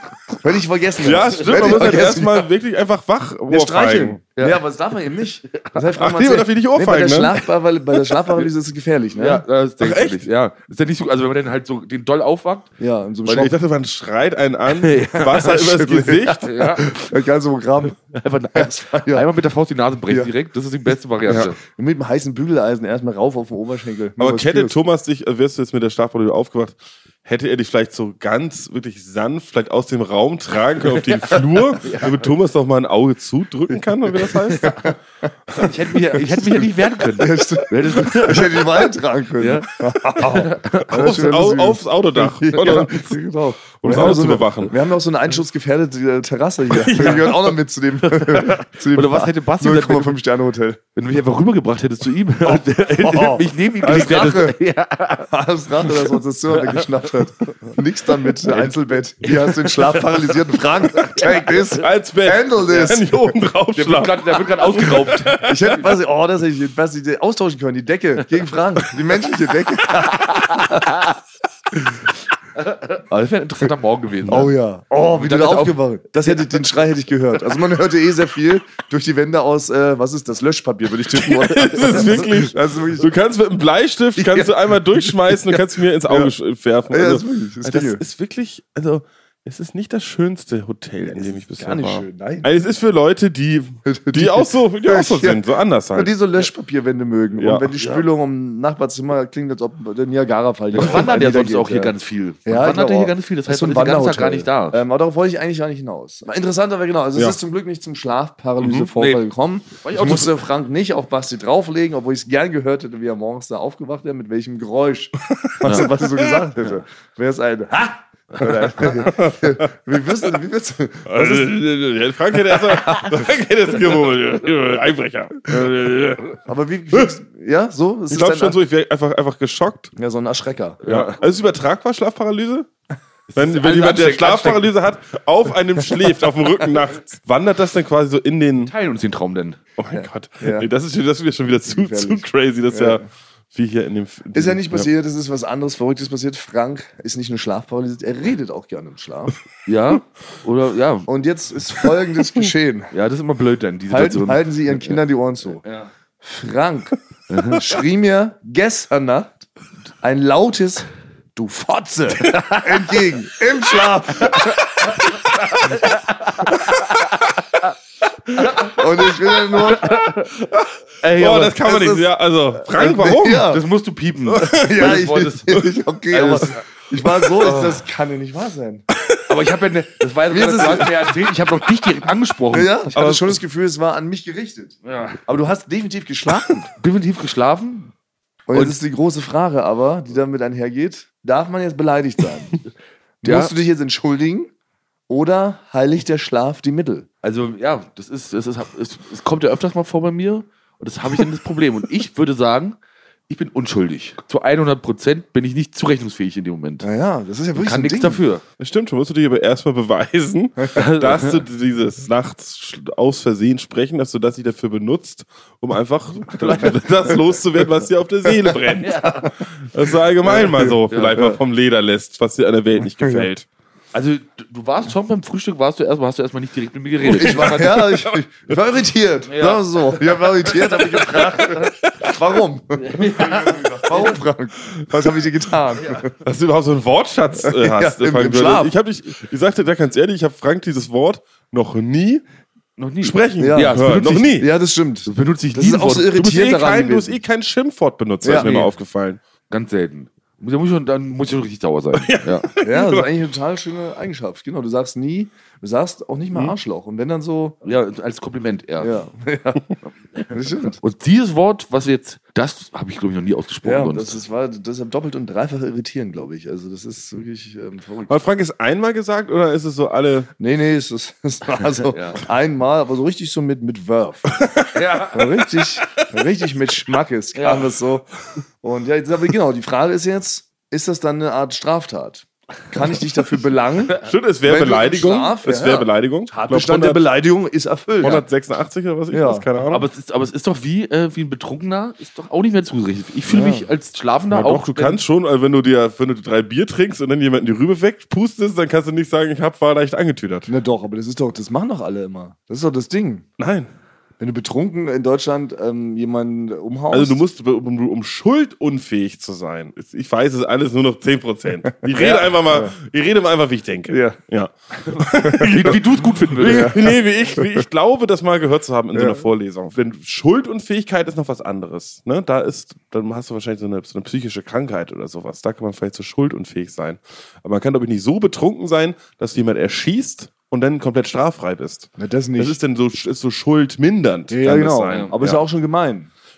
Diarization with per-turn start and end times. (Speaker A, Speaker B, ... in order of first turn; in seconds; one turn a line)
Speaker A: 0.3-2.5
Speaker B: 1.0-4.2
Speaker C: 1.4-2.1
Speaker A: 3.5-9.4
Speaker C: 4.4-4.6
Speaker B: 6.0-7.4
Speaker C: 9.2-12.7
Speaker B: 9.8-10.2
Speaker A: 12.8-13.5
Speaker B: 13.3-16.8
Speaker C: 14.8-15.6
Speaker A: 15.4-18.0
Speaker C: 16.5-17.1
Speaker C: 18.1-21.6
Speaker A: 18.6-19.2
Speaker A: 21.3-24.8
Speaker B: 24.2-34.9
Speaker C: 31.8-32.2
Speaker A: 34.5-35.0
Speaker C: 35.6-38.8
Speaker A: 36.3-50.8
Speaker C: 39.4-39.7
Speaker C: 40.2-40.9
Speaker B: 40.8-43.1
Speaker B: 43.8-44.8
Speaker B: 46.7-47.5
Speaker C: 48.1-50.2
Speaker C: 51.0-55.3
Speaker A: 52.5-54.6
Speaker A: 55.3-63.3
Speaker C: 55.9-57.1
Speaker C: 58.5-60.4
Speaker C: 61.0-61.6
Speaker B: 61.7-65.8
Speaker C: 63.8-65.4
Speaker A: 65.4-71.0
Speaker C: 72.6-74.5
Speaker A: 74.3-83.1
Speaker C: 75.1-76.6
Speaker B: 81.1-96.1
Speaker A: 84.2-84.5
Speaker A: 86.9-88.0
Speaker A: 91.1-92.5
Speaker A: 93.9-95.4
Speaker A: 95.9-101.9
Speaker B: 97.4-97.7
Speaker C: 100.8-104.8
Speaker A: 102.5-121.6
Speaker B: 108.6-108.9
Speaker C: 109.0-109.2
Speaker C: 109.8-110.4
Speaker B: 115.3-116.4
Speaker C: 115.6-115.9
Speaker B: 118.8-119.7
Speaker B: 121.1-126.4
Speaker A: 126.4-128.6
Speaker B: 128.1-129.9
Speaker A: 130.0-130.8
Speaker C: 130.8-131.2
Speaker B: 130.8-132.7
Speaker C: 133.3-134.7
Speaker B: 133.4-138.7
Speaker C: 138.6-139.6
Speaker B: 139.8-144.9
Speaker A: 139.9-140.7
Speaker A: 141.7-143.1
Speaker A: 144.3-149.4
Speaker C: 149.7-151.1
Speaker A: 151.1-152.9
Speaker C: 152.9-155.0
Speaker A: 153.9-155.6
Speaker C: 155.6-155.9
Speaker A: 156.2-159.5
Speaker C: 157.3-157.7
Speaker A: 160.0-164.5
Speaker C: 165.5-166.6
Speaker C: 168.4-168.7
Speaker A: 168.6-170.0
Speaker C: 169.7-170.3
Speaker B: 170.3-173.6
Speaker C: 171.0-171.6
Speaker A: 171.4-173.6
Speaker C: 173.3-176.6
Speaker B: 174.3-175.0
Speaker A: 174.5-178.9
Speaker C: 177.4-177.8
Speaker C: 179.3-183.3
Speaker A: 180.3-181.2
Speaker A: 182.5-186.7
Speaker C: 184.8-185.2
Speaker C: 186.7-187.9
Speaker A: 188.5-192.6
Speaker A: 193.2-194.5
Speaker C: 193.2-193.5
Speaker A: 195.1-197.1
Speaker C: 197.2-202.8
Speaker C: 203.3-206.9
Speaker A: 206.8-208.2
Speaker C: 207.6-208.4
Speaker B: 208.6-223.5
Speaker C: 210.7-211.4
Speaker C: 216.4-216.8
Speaker C: 218.8-219.3
Speaker A: 220.3-221.4
Speaker C: 220.9-221.2
Speaker A: 223.0-223.3
Speaker C: 223.9-227.9
Speaker B: 227.1-228.0
Speaker A: 227.1-236.1
Speaker C: 229.3-231.7
Speaker C: 232.8-234.2
Speaker B: 236.2-242.2
Speaker A: 237.4-238.7
Speaker C: 242.8-244.4
Speaker B: 243.0-244.5
Speaker A: 243.4-247.2
Speaker C: 245.1-246.1
Speaker B: 246.1-249.2
Speaker A: 248.2-248.5
Speaker C: 248.3-248.7
Speaker C: 249.5-252.5
Speaker B: 251.9-253.1
Speaker A: 252.6-257.6
Speaker C: 257.6-258.9
Speaker A: 258.8-259.7
Speaker A: 260.3-260.8
Speaker C: 260.8-264.2
Speaker A: 263.6-268.1
Speaker B: 268.1-270.3
Speaker A: 270.4-274.3
Speaker C: 271.9-272.2
Speaker B: 274.4-274.7
Speaker C: 274.7-275.3
Speaker A: 275.1-278.1
Speaker C: 277.4-277.7
Speaker A: 278.6-288.2
Speaker B: 284.0-287.0
Speaker B: 288.0-289.9
Speaker A: 289.1-289.5
Speaker C: 289.7-295.0
Speaker A: 293.3-293.7
Speaker B: 294.3-300.5
Speaker A: 300.5-303.2
Speaker B: 303.4-303.7
Speaker A: 304.2-307.2
Speaker B: 306.9-335.4
Speaker A: 311.8-312.7
Speaker A: 313.9-314.2
Speaker C: 314.9-316.9
Speaker A: 315.2-315.8
Speaker A: 316.4-316.8
Speaker A: 317.4-317.6
Speaker A: 318.9-319.2
Speaker A: 332.0-332.6
Speaker A: 334.3-336.1
Speaker C: 334.9-335.1